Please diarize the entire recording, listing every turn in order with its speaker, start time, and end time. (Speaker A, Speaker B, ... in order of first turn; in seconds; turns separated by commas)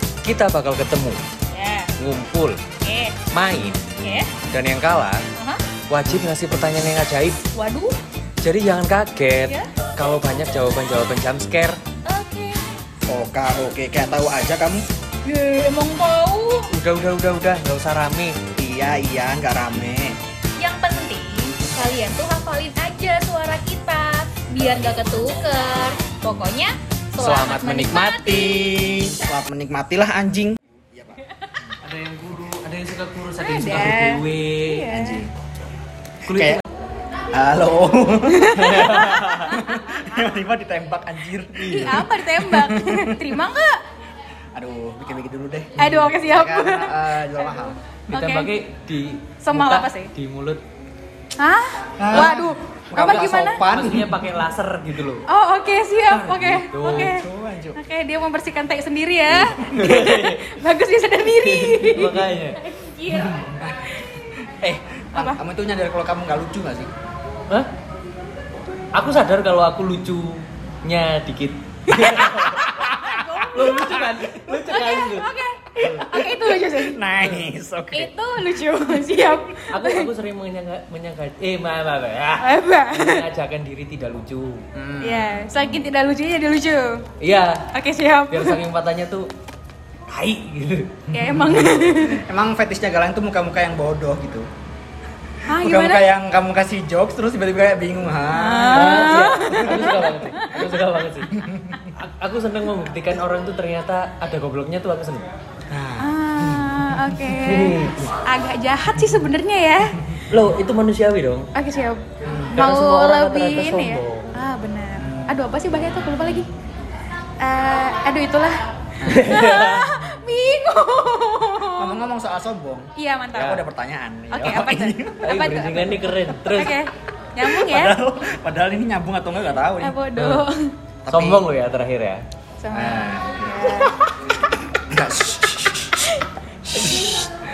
Speaker A: 0.2-1.2, Speaker B: 1.5-1.9, Speaker A: 2.0-2.6, Speaker B: 2.8-3.2, Speaker A: 3.3-3.9, Speaker B: 4.0-4.3, Speaker A: 4.5-5.2, Speaker B: 5.3-5.6, Speaker A: 5.9-7.4, Speaker B: 7.5-8.0, Speaker A: 8.4-11.8, Speaker B: 9.4-9.7, Speaker B: 12.1-12.7, Speaker C: 13.1-14.8, Speaker B: 15.2-16.7, Speaker A: 16.7-18.4, Speaker C: 18.6-20.2, Speaker B: 20.6-29.3, Speaker A: 27.2-29.0, Speaker C: 28.6-31.7, Speaker B: 31.3-31.6, Speaker A: 31.8-34.9, Speaker B: 33.4-35.2, Speaker C: 34.9-35.3, Speaker A: 36.3-36.6, Speaker C: 36.3-36.6, Speaker C: 37.3-43.4, Speaker B: 38.2-39.9, Speaker A: 38.6-39.4, Speaker B: 41.6-43.8, Speaker A: 41.7-42.0, Speaker C: 44.5-47.8, Speaker A: 45.8-46.1, Speaker B: 45.8-48.5, Speaker A: 48.1-50.6, Speaker B: 49.4-50.1, Speaker B: 51.4-53.6, Speaker C: 52.0-54.2, Speaker A: 53.6-55.2, Speaker B: 55.3-64.2, Speaker A: 56.1-57.1, Speaker C: 56.8-57.8, Speaker A: 59.3-60.4, Speaker A: 61.3-62.6, Speaker C: 63.4-63.8, Speaker C: 64.4-66.9, Speaker B: 65.1-65.4, Speaker A: 68.9-72.9, Speaker B: 71.9-77.0, Speaker C: 72.1-73.2, Speaker A: 73.5-75.3, Speaker C: 73.8-74.2, Speaker C: 76.1-78.1, Speaker B: 77.9-80.1, Speaker A: 79.7-84.7, Speaker B: 82.4-83.2, Speaker C: 84.7-85.7, Speaker B: 85.0-87.0, Speaker A: 87.2-87.7, Speaker B: 87.7-88.6, Speaker A: 88.3-89.3, Speaker A: 90.1-91.8, Speaker B: 91.1-92.2, Speaker C: 92.0-94.5, Speaker B: 95.5-96.1, Speaker C: 95.5-99.3, Speaker B: 98.3-100.7, Speaker A: 98.7-101.4, Speaker C: 101.3-101.9, Speaker A: 101.9-105.2, Speaker C: 105.7-106.7, Speaker B: 106.0-110.0, Speaker A: 107.2-108.1, Speaker A: 110.3-111.5, Speaker B: 111.5-112.0, Speaker C: 112.2-112.5, Speaker B: 112.5-116.5, Speaker A: 112.5-114.3, Speaker C: 115.0-115.4, Speaker B: 117.4-122.0, Speaker C: 119.0-119.4, Speaker A: 119.0-120.2, Speaker C: 121.8-125.4, Speaker B: 123.0-123.6, Speaker B: 124.3-128.0, Speaker A: 125.2-126.8, Speaker C: 127.4-130.0, Speaker B: 129.8-130.7, Speaker A: 130.2-130.4, Speaker C: 131.0-131.4, Speaker A: 131.1-132.2, Speaker B: 132.6-134.0, Speaker C: 132.7-133.9, Speaker C: 134.7-136.0, Speaker C: 136.7-137.3